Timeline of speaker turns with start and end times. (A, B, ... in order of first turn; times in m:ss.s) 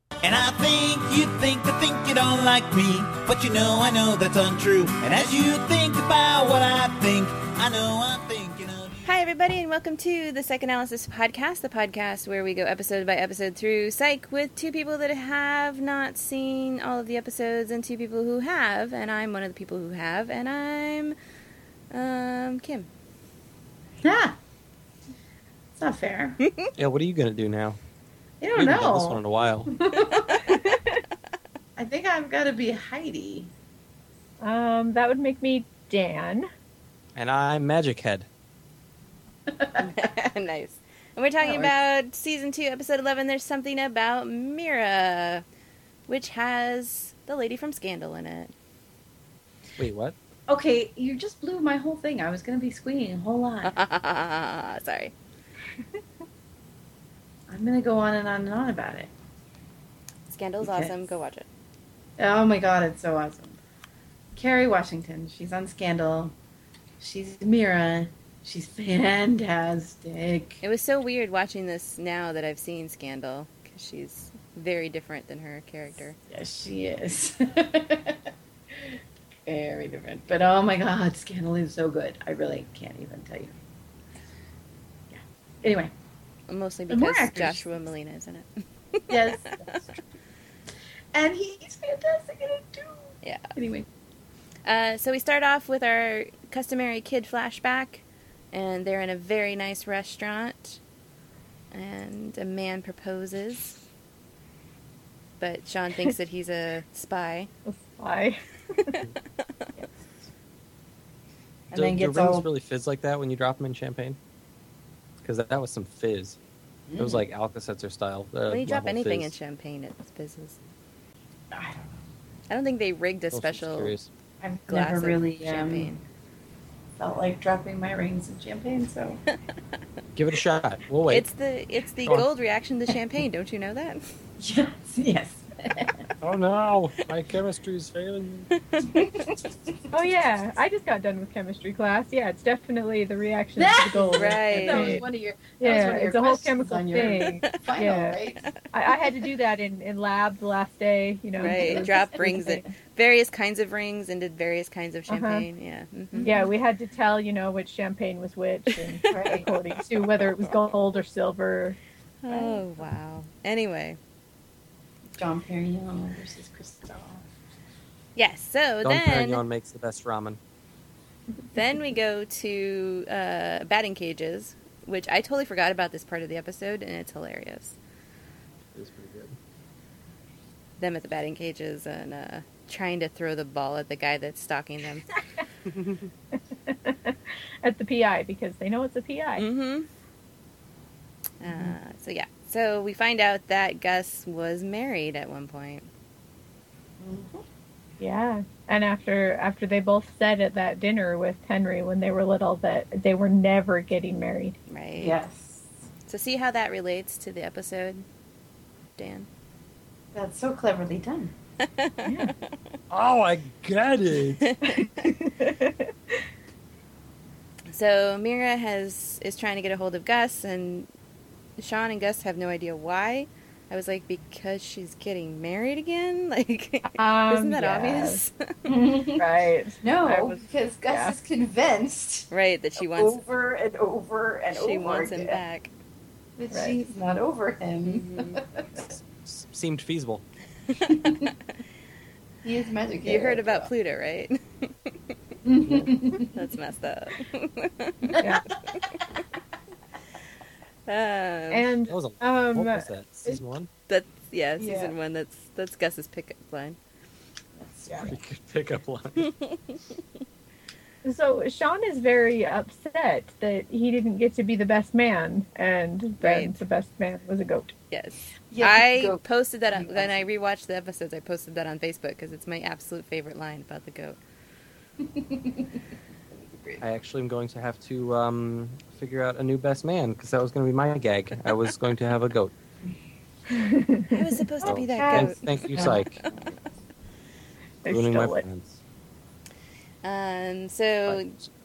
0:00.2-0:09.1 A
0:09.0-0:21.2 B
0:21.9-0:22.9 B
0:24.0-0:24.4 C
0:25.8-0:26.4 C
0:26.4-0:26.7 B
0:26.8-0:27.8 D
0:28.4-0:30.5 C
0:28.6-0:29.7 D
0:30.1-0:30.7 B
0:31.8-0:33.5 C
0:34.4-0:36.5 E
0:37.2-0:38.3 D
0:39.5-0:40.0 C
0:39.8-0:45.4 B
0:41.4-0:41.7 C
0:46.1-0:48.5 B
0:49.8-0:50.2 D
0:50.5-0:53.8 C
0:53.6-0:55.1 B
0:57.5-0:59.1 C
1:00.3-1:01.5 B
1:00.6-1:01.1 C
1:02.2-1:03.6 C
1:04.3-1:06.4 C
1:07.0-1:10.6 C
1:10.6-1:16.2 B
1:16.3-1:18.3 C
1:18.8-1:23.5 C
1:25.1-1:25.9 C
1:26.5-1:29.8 B
1:26.9-1:27.6 C
1:29.1-1:30.0 C
1:31.1-1:33.9 C
1:33.2-1:33.6 B
1:34.6-1:40.8 B
1:41.7-1:43.8 B
1:45.4-1:47.5 B
1:47.7-1:49.0 E
1:51.7-1:52.5 C
1:51.7-1:54.2 D
1:55.2-1:56.4 D
1:56.9-1:57.2 C
1:57.0-1:59.3 D
1:58.5-2:00.6 B
2:01.5-2:01.9 C
2:02.5-2:03.9 B
2:03.3-2:04.1 D
2:04.4-2:05.9 C
2:04.7-2:06.0 B
2:07.0-2:09.2 C
2:10.2-2:11.3 D
2:11.1-2:14.1 B
2:14.4-2:16.0 C
2:16.2-2:18.5 D
2:18.5-2:19.4 B
2:19.0-2:19.3 C
2:19.9-2:25.0 E
2:23.6-2:28.5 C
2:24.1-2:25.0 B
2:25.6-2:28.2 E
2:28.7-2:32.6 E
2:31.4-2:32.7 C
2:31.4-2:36.4 B
2:35.1-2:35.4 E
2:36.1-2:36.5 C
2:36.2-2:41.8 E
2:38.8-2:40.7 B
2:39.1-2:39.5 C
2:42.2-2:44.0 B
2:42.3-2:42.9 C
2:45.2-2:47.3 C
2:48.2-2:49.4 B
2:48.8-2:50.4 D
2:51.5-2:57.8 B
2:58.7-2:59.4 D
3:00.8-3:05.1 B
3:05.7-3:06.1 D
3:06.7-3:09.4 E
3:09.4-3:09.9 B
3:11.4-3:15.9 B
3:17.0-3:17.4 C
3:18.0-3:24.6 E
3:24.7-3:25.2 B
3:25.0-3:25.7 C
3:26.1-3:28.0 B
3:29.0-3:29.3 B
3:30.1-3:31.3 C
3:31.6-3:32.4 B
3:32.0-3:32.3 E
3:32.9-3:34.5 D
3:34.4-3:35.1 B
3:34.6-3:35.9 E
3:37.7-3:40.9 B
3:41.6-3:48.8 B
3:46.9-3:48.2 E
3:48.7-3:49.3 C
3:49.2-3:51.2 E
3:49.8-3:55.4 C
3:52.3-3:53.2 B
3:54.5-3:55.7 B
3:56.4-3:58.8 C
3:57.8-3:58.4 B
3:59.2-4:00.2 D
4:00.9-4:01.3 C
4:02.4-4:03.7 C
4:03.0-4:04.9 B
4:05.4-4:06.4 C
4:06.3-4:08.2 B
4:08.1-4:08.9 C
4:08.2-4:08.4 E
4:10.9-4:11.7 B
4:11.5-4:12.9 E
4:11.9-4:13.7 D
4:13.9-4:16.8 B
4:14.6-4:14.9 C
4:17.6-4:18.1 C
4:17.9-4:18.2 E
4:18.0-4:19.3 D
4:19.2-4:19.8 B
4:21.0-4:27.7 E
4:26.2-4:26.6 B
4:27.9-4:34.2 B
4:28.5-4:29.2 C
4:29.7-4:30.3 C
4:35.0-4:35.7 C
4:36.8-4:42.5 D
4:43.5-4:44.2 E
4:44.1-4:46.3 B
4:44.6-4:46.7 C
4:44.6-4:46.2 D
4:47.8-4:48.4 E
4:47.9-4:48.8 D
4:50.0-4:51.3 B
4:51.1-4:51.5 D